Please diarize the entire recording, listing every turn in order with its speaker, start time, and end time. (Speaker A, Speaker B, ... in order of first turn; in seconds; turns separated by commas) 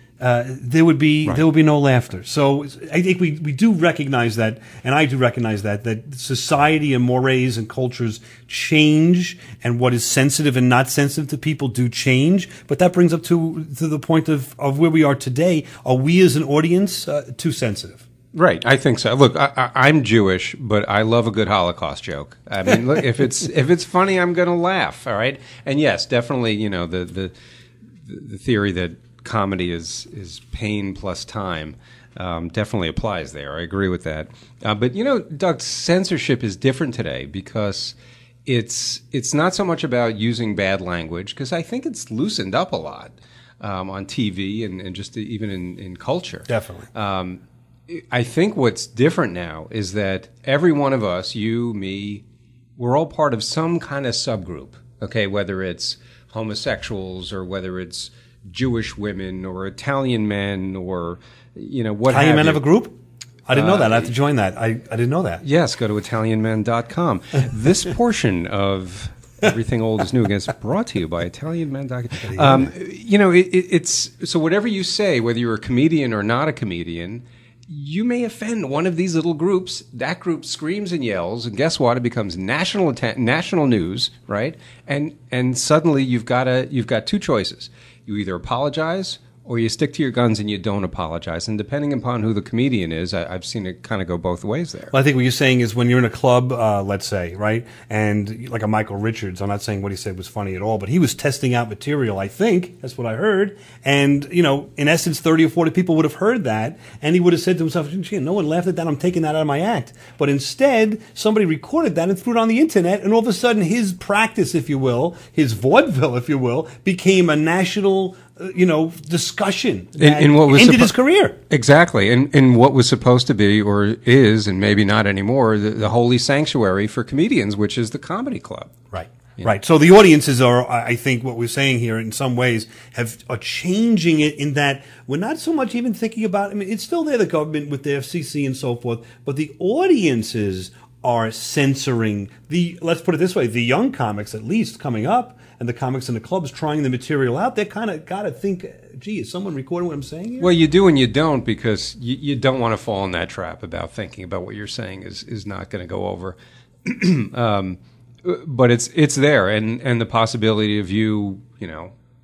Speaker A: 0.2-18.1, Speaker B: 18.3-27.3, Speaker B: 28.1-38.0, Speaker B: 38.5-52.2, Speaker A: 46.5-46.9, Speaker B: 52.8-62.6, Speaker A: 62.1-63.0, Speaker A: 63.5-65.4, Speaker B: 63.5-64.1, Speaker B: 65.4-94.9, Speaker A: 72.2-72.7, Speaker A: 94.9-121.3, Speaker B: 120.0-120.9, Speaker B: 121.5-128.7, Speaker A: 128.9-150.5, Speaker B: 150.4-161.9